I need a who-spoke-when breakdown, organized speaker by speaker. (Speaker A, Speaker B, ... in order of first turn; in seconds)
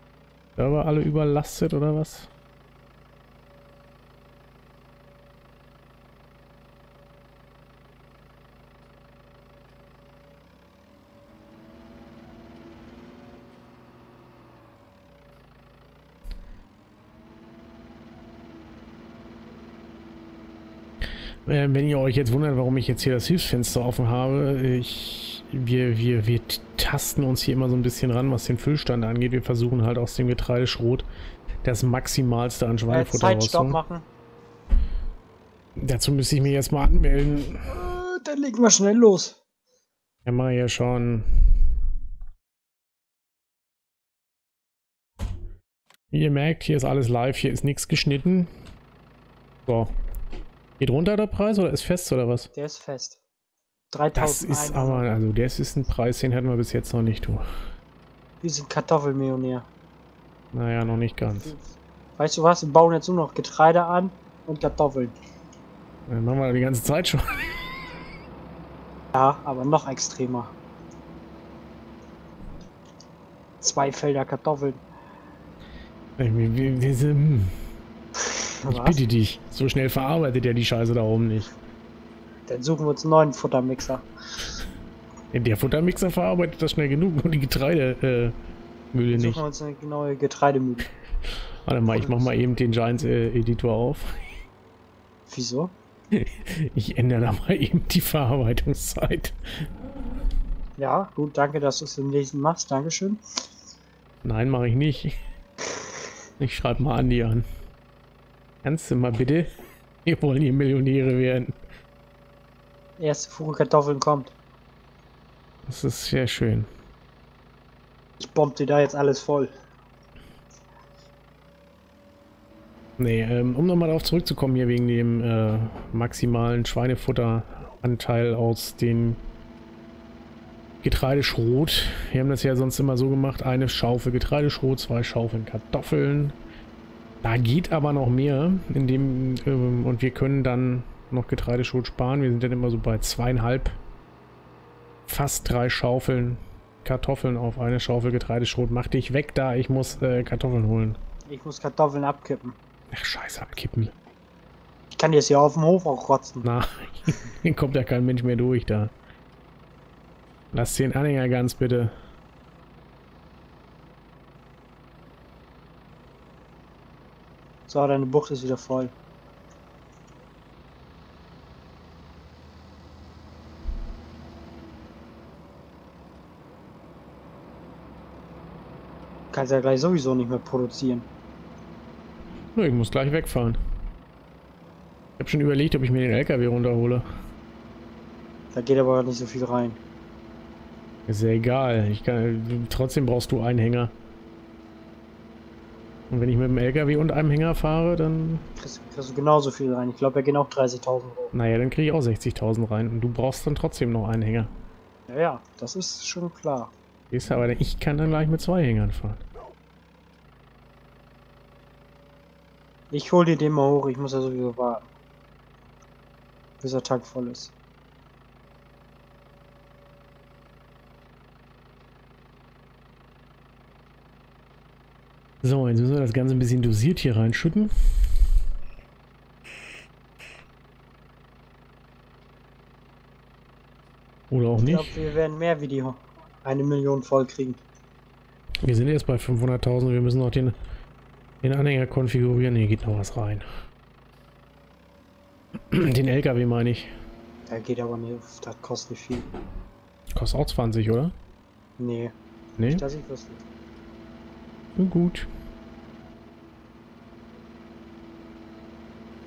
Speaker A: 0.6-2.3, 21.4-31.1, 31.6-33.8, 35.8-37.7, 40.2-41.6, 46.1-48.5, 49.6-49.9, 50.8-52.5, 54.1-57.4, 60.5-61.5, 66.1-67.7, 76.2-77.6, 78.7-81.5, 85.3-88.3, 88.9-89.4, 91.6-94.1, 96.1-99.3, 104.2-105.2, 106.4-107.4, 108.6-109.5, 110.0-111.5, 115.7-116.7, 123.0-129.2, 130.8-136.3, 137.2-143.8, 145.1-151.0, 152.9-153.9, 156.4-158.9, 160.5-161.9, 182.5-183.6, 185.2-187.1, 191.1-193.9, 196.1-198.5, 201.3-204.5, 207.1-209.2, 225.4-227.7, 234.3-235.0, 238.6-240.5, 241.4-243.4, 245.7-246.9, 250.1-251.1, 252.6-252.8, 254.8-255.3
Speaker B: 32.9-34.1, 37.6-39.4, 52.5-53.2, 53.9-55.1, 58.4-59.7, 62.2-65.1, 69.1-70.5, 73.6-74.8, 78.4-79.0, 82.5-84.1, 89.1-90.9, 92.0-92.3, 95.3-95.7, 100.8-103.2, 113.0-114.3, 118.2-119.5, 151.3-152.6, 154.9-156.4, 167.7-168.9, 179.3-181.1, 188.5-189.8, 198.6-201.3, 205.1-206.7, 212.9-214.9, 216.6-217.5, 234.6-237.6, 247.5-249.3, 251.8-252.1, 252.7-253.4